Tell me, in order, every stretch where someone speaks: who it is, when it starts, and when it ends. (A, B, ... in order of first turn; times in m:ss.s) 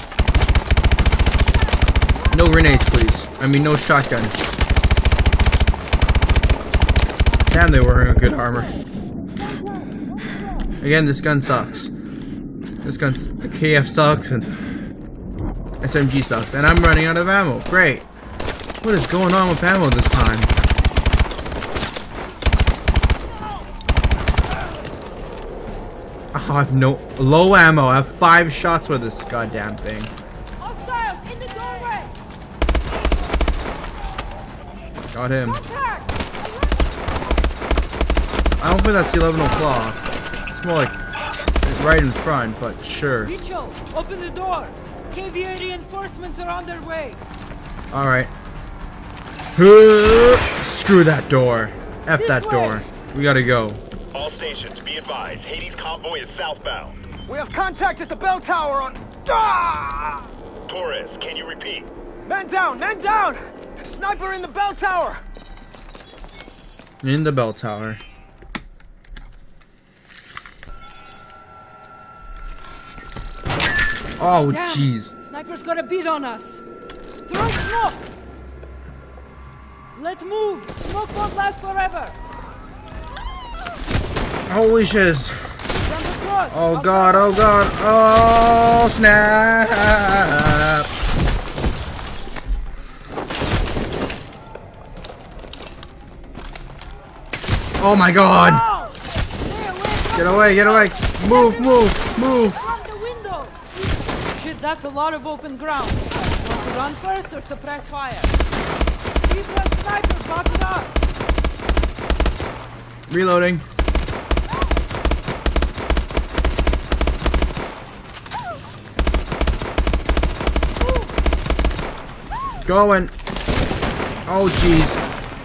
0:02.3-0:04.5 A
0:07.5-0:08.7 A
0:10.8-0:11.9 A
0:12.8-0:14.5 A
0:15.8-0:18.1 A
0:18.8-0:20.5 A
0:26.3-0:30.1 A
0:30.6-0:32.1 B
0:35.1-0:35.6 A
0:35.6-0:36.1 B
0:38.6-0:41.0 A
0:41.6-0:43.3 A
0:43.2-0:47.2 B
0:47.9-0:48.3 A
0:49.6-0:53.8 A
0:52.2-0:52.8 B
0:54.1-0:57.0 C
0:57.3-1:00.3 D
1:00.7-1:01.9 C
1:02.3-1:05.2 D
1:07.0-1:08.0 A
1:14.2-1:15.1 A
1:14.4-1:16.6 B
1:17.3-1:18.1 B
1:20.0-1:22.2 B
1:24.5-1:25.6 A
1:25.8-1:27.5 B
1:26.5-1:30.9 A
1:37.8-1:38.6 A
1:38.4-1:48.3 B
1:40.1-1:42.6 A
1:49.2-1:51.0 B
1:53.1-1:53.6 A
2:02.6-2:03.1 A
2:04.3-2:05.0 A